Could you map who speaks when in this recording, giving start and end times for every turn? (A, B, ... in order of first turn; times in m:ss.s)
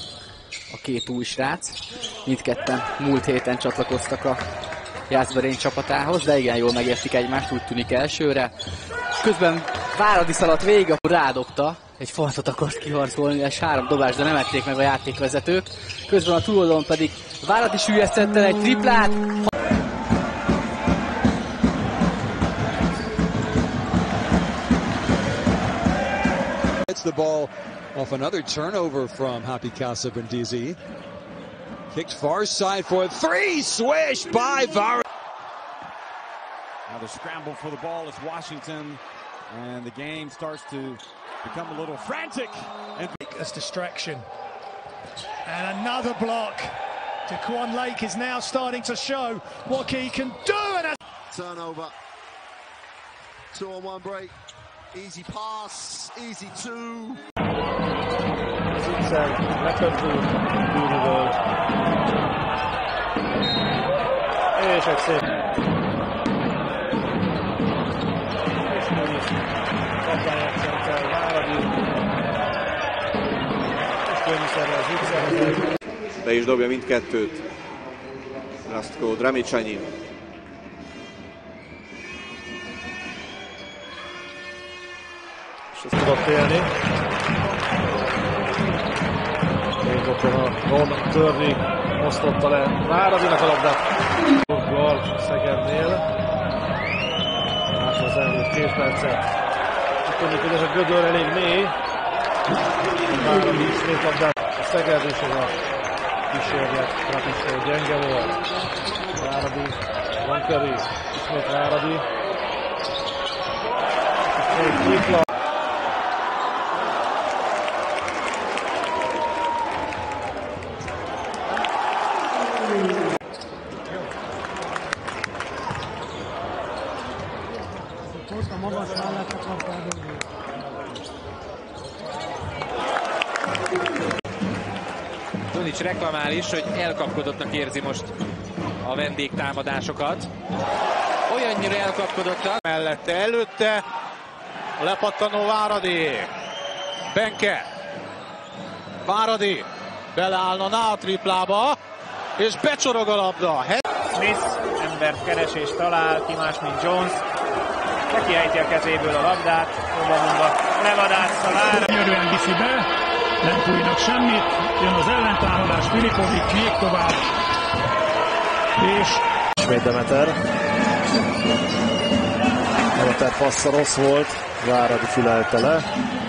0:00.7-0:04.4 A
0:05.1-0:08.5 A
0:09.2-0:19.2 A
0:26.9-0:30.8 B
0:31.9-0:35.0 B
0:36.9-0:43.2 C
0:43.2-0:44.2 D
0:45.5-0:46.7 D
0:47.3-0:51.0 D
0:51.3-0:51.9 E
0:53.5-0:54.3 E
0:54.9-0:57.2 E
0:58.8-1:01.4 F
1:04.6-1:05.2 F
1:08.7-1:09.3 F
1:10.0-1:11.7 F
1:14.1-1:15.6 F
1:14.5-1:15.6 G
1:16.2-1:17.4 H
1:18.7-1:19.9 H
1:25.8-1:26.4 G
1:25.8-1:26.7 F
1:29.8-1:33.8 F
1:34.5-1:36.0 F
1:37.7-1:39.3 F
1:40.0-1:41.8 F
1:43.1-1:45.6 F
1:46.3-1:48.4 F
1:49.2-1:52.0 F
1:54.3-1:55.2 F
2:15.5-2:18.1 I
2:18.8-2:20.3 I
2:21.3-2:22.6 I
2:22.7-2:23.8 J
2:24.8-2:26.3 J
2:27.1-2:27.6 J
2:29.0-2:31.8 J
2:32.4-2:33.8 J
2:34.1-2:37.2 K
2:38.1-2:42.0 K
2:42.0-2:42.8 L
2:43.6-2:47.1 L
2:49.6-2:50.4 G
2:53.0-2:55.9 G